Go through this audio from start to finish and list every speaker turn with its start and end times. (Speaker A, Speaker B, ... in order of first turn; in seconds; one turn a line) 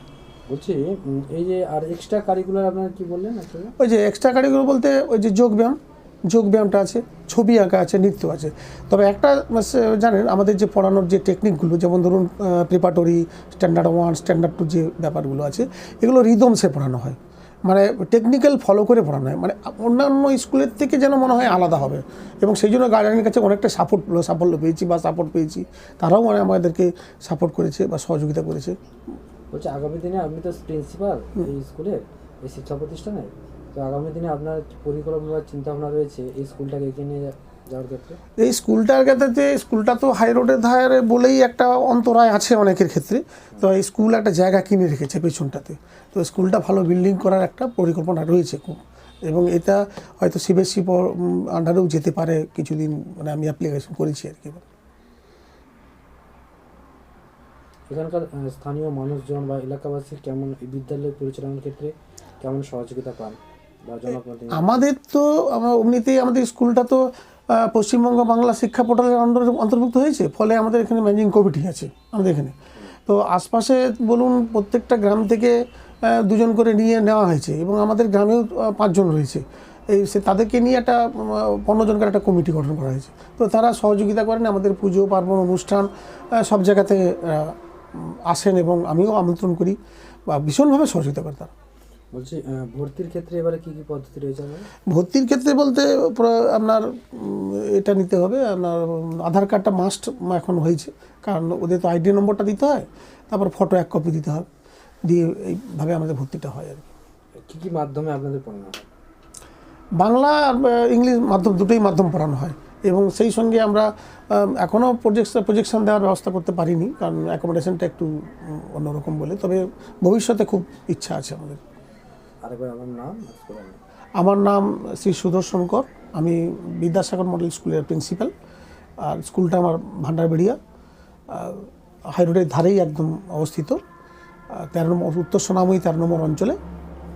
Speaker A: 0.5-3.7
Speaker B: 3.8-28.7
Speaker A: 29.5-38.2
Speaker B: 38.4-54.6
Speaker A: 57.9-64.8
Speaker B: 64.5-72.5
Speaker B: 73.0-89.8
Speaker B: 90.3-91.5
Speaker A: 92.1-94.7
Speaker B: 94.9-104.5
Speaker B: 105.0-106.9
Speaker A: 107.4-108.9
Speaker B: 110.0-121.6
Speaker A: 122.4-123.8
Speaker B: 124.2-128.3
Speaker B: 129.0-130.6
Speaker B: 131.3-133.8
Speaker B: 134.5-136.6